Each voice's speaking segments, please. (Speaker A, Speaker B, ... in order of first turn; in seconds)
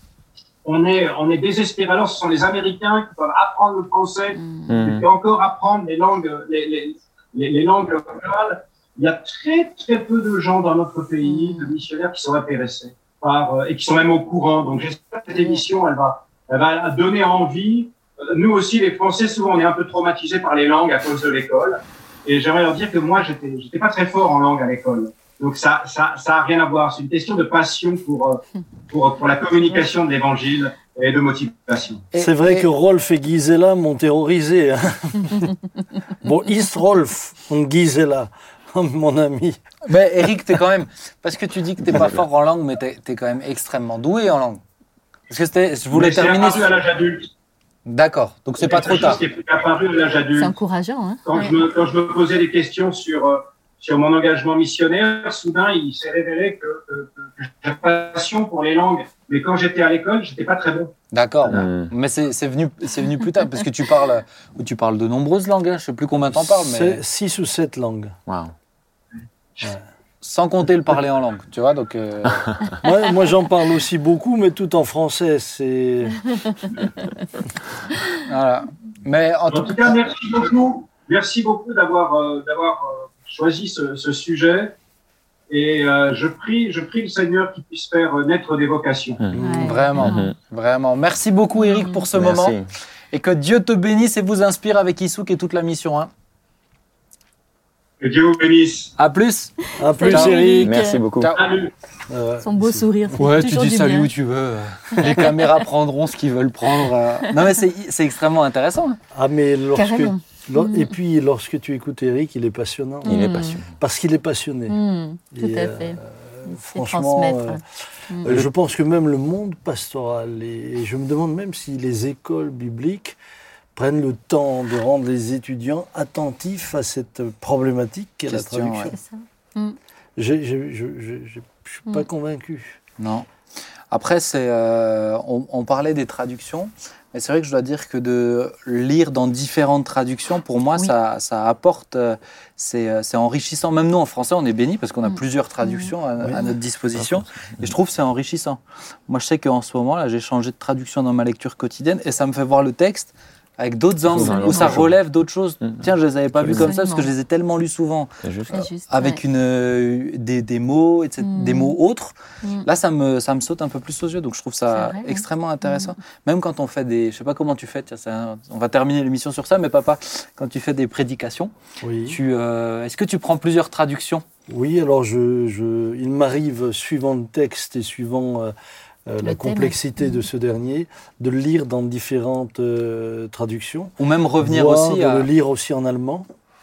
Speaker A: 0.6-32.1, 45.9-47.3, 48.6-50.6, 51.3-60.9, 79.5-84.8, 85.5-89.2, 98.0-98.9, 101.3-101.7
Speaker B: 4.4-4.8, 11.2-11.8, 50.4-51.5, 89.3-90.3, 91.6-92.0, 99.8-101.0, 102.4-104.1, 105.0-105.3, 109.8-110.9, 113.0-113.6, 114.7-118.3, 128.9-129.8, 145.1-145.9, 154.2-154.8, 156.5-157.1, 158.5-159.2, 161.2-161.8, 164.7-165.9, 179.2-180.2
Speaker C: 4.7-5.0, 41.9-42.2, 61.5-61.9, 68.3-68.5, 90.0-90.3, 92.1-92.7, 100.1-101.3, 113.1-113.8, 147.0-147.7, 154.1-154.9, 155.6-156.7, 158.2-158.6
Speaker D: 32.1-32.7, 39.9-44.6, 45.3-46.7, 47.9-49.2, 61.1-67.0, 70.2-72.5, 78.3-79.9, 89.6-92.5, 93.1-96.1, 99.0-100.4, 101.2-101.5, 103.2-109.0, 128.3-128.9, 133.0-133.3, 133.9-171.5, 172.1-174.2, 184.0-185.3
Speaker E: 32.1-35.5, 36.2-39.6, 66.3-68.2, 72.8-76.2, 89.3-89.8, 99.8-100.8, 102.1-103.2, 109.1-113.3, 113.8-114.8, 115.3-123.2, 123.8-128.9, 130.2-132.8, 171.8-172.2, 174.5-178.5, 179.1-186.3